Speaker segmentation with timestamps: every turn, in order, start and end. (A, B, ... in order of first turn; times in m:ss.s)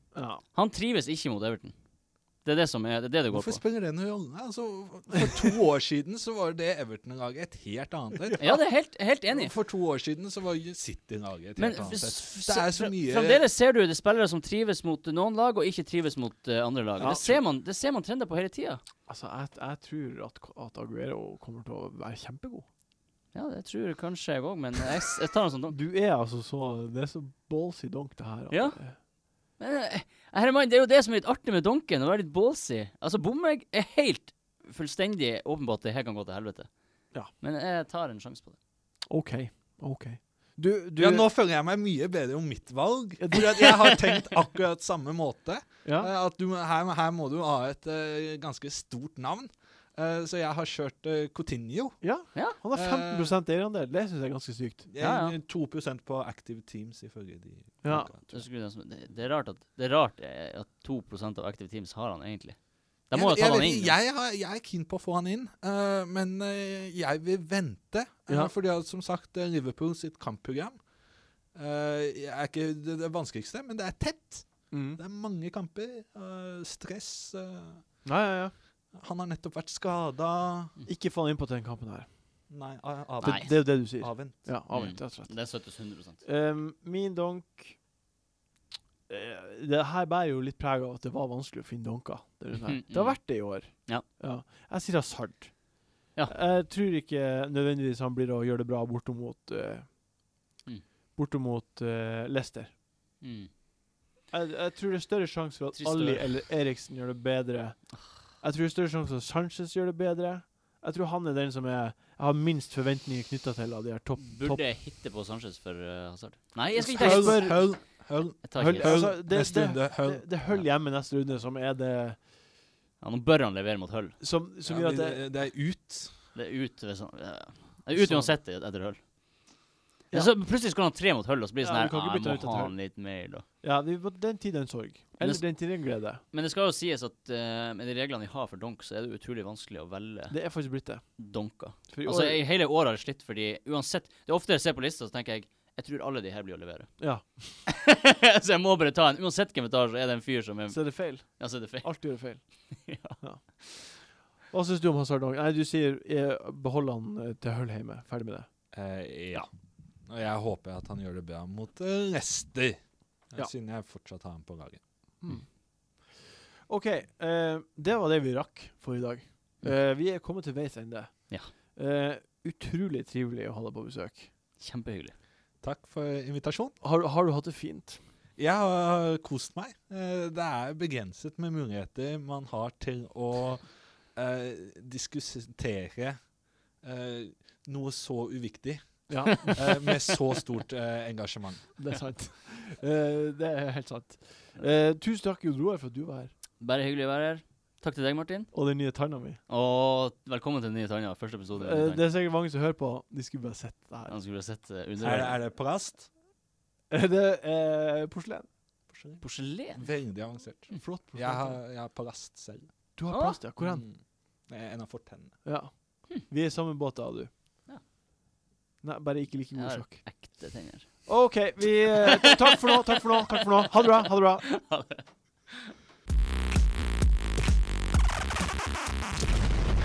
0:00.1-0:00.4 A
0:00.5-0:01.7 B
0:02.4-0:03.6 B
0:03.3-0:08.4 C
0:08.2-0:08.6 A
0:08.4-0:09.5 B
0:09.3-0:13.4 C
0:11.6-0:18.8 B
0:17.0-0:17.4 A
0:19.1-0:22.7 A
0:23.3-0:25.8 B
0:25.7-0:29.0 A
0:28.5-0:28.8 B
0:29.6-0:36.7 B
0:37.3-0:38.6 B
0:39.1-0:41.3 A
0:41.0-0:52.0 C
0:43.2-0:43.8 A
0:45.8-0:46.1 A
0:52.0-0:54.9 A
0:52.6-0:53.3 C
0:54.9-0:58.5 C
0:55.0-0:55.4 B
0:57.8-0:58.1 A
0:58.3-1:03.9 B
1:03.1-1:10.8 C
1:11.5-1:17.8 C
1:14.7-1:15.0 A
1:18.0-1:18.5 A
1:18.9-1:20.7 C
1:20.9-1:22.1 A
1:22.5-1:24.5 C
1:23.2-1:25.6 A
1:23.2-1:23.7 B
1:24.7-1:26.2 B
1:26.2-1:27.8 A
1:29.1-1:39.9 A
1:32.6-1:34.0 B
1:41.2-1:42.7 A
1:43.2-1:43.5 B
1:44.3-1:54.6 A
1:45.8-1:46.4 B
1:54.2-1:57.7 B
1:56.8-2:00.2 C
1:56.8-1:57.8 A
1:58.4-1:59.2 B
1:58.5-2:02.2 A
2:03.0-2:04.2 B
2:04.2-2:05.2 A
2:04.6-2:06.1 C
2:06.3-2:09.0 B
2:07.9-2:08.3 A
2:10.1-2:10.4 A
2:10.1-2:13.4 B
2:11.6-2:12.8 A
2:13.6-2:16.2 A
2:15.2-2:15.7 B
2:16.3-2:20.4 B
2:20.3-2:21.0 A
2:21.2-2:26.9 B
2:21.9-2:22.4 A
2:27.0-2:27.6 A
2:27.7-2:33.2 B
2:30.7-2:38.5 A
2:38.7-2:39.5 C
2:40.0-2:44.8 C
2:45.2-2:45.5 A
2:46.7-2:54.3 A
2:54.6-2:55.1 B
2:55.6-2:56.8 C
2:56.8-2:58.0 A
2:58.4-3:06.2 C
3:06.8-3:11.7 C
3:09.1-3:09.8 A
3:11.8-3:16.3 A
3:16.6-3:18.5 B
3:18.5-3:19.4 A
3:19.5-3:22.0 B
3:21.6-3:24.1 A
3:24.1-3:25.4 B
3:25.0-3:26.1 C
3:26.9-3:28.5 A
3:28.9-3:29.2 C
3:29.2-3:30.0 B
3:29.7-3:32.7 C
3:30.7-3:31.6 A
3:33.0-3:33.9 A
3:33.1-3:33.4 B
3:33.6-3:35.4 C
3:35.4-3:37.3 A
3:38.8-3:40.0 A
3:39.5-3:41.2 B
3:41.0-3:44.5 A
3:44.4-3:45.7 B